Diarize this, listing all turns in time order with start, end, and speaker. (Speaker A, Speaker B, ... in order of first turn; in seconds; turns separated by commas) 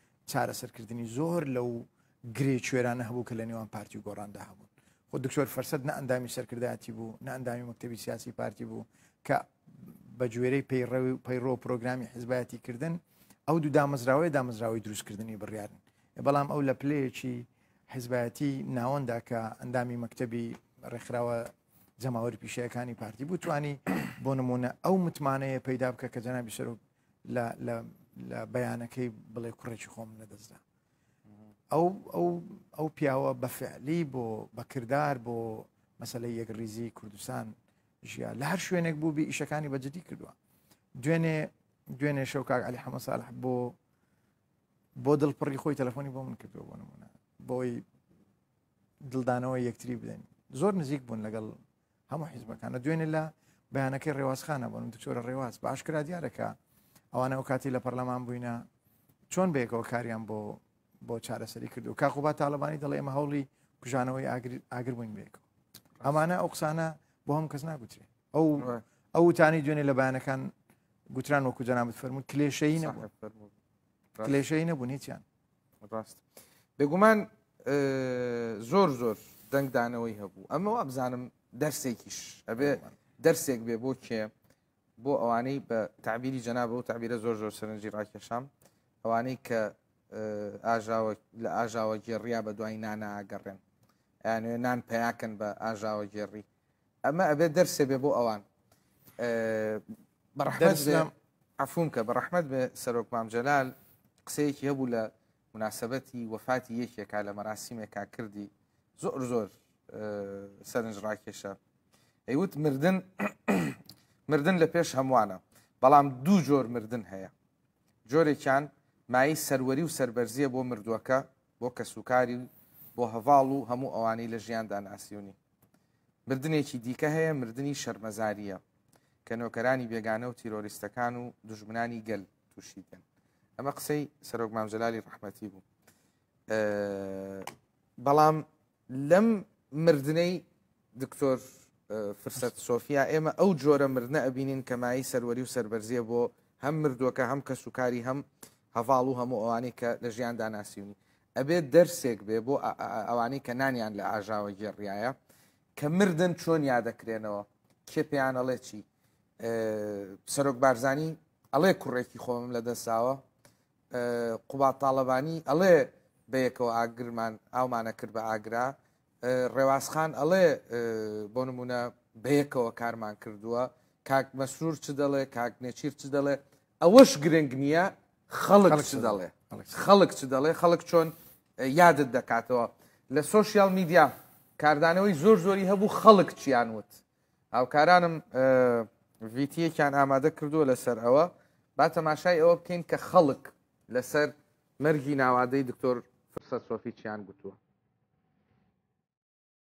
Speaker A: 0.3-30.6, Speaker A: 31.7-40.3, Speaker A: 41.0-43.8, Speaker A: 45.0-47.8, Speaker A: 49.0-56.6, Speaker A: 57.1-58.6, Speaker A: 59.3-65.4, Speaker A: 66.0-70.5, Speaker A: 71.1-73.0, Speaker B: 72.8-73.5, Speaker A: 74.2-75.2, Speaker B: 75.8-76.2, Speaker B: 76.8-84.3, Speaker A: 82.6-82.9, Speaker B: 85.0-88.5, Speaker B: 89.0-93.6, Speaker B: 94.2-96.5, Speaker B: 97.0-98.4, Speaker B: 99.2-99.8, Speaker B: 100.3-103.7, Speaker A: 100.5-101.1, Speaker B: 104.2-111.6, Speaker B: 112.3-117.3, Speaker B: 118.1-125.3, Speaker B: 126.3-128.6, Speaker B: 129.2-133.0, Speaker B: 133.6-135.6, Speaker B: 136.5-155.2, Speaker B: 155.8-158.8, Speaker B: 159.4-163.2, Speaker B: 163.9-186.9, Speaker A: 178.7-179.8, Speaker B: 187.5-197.6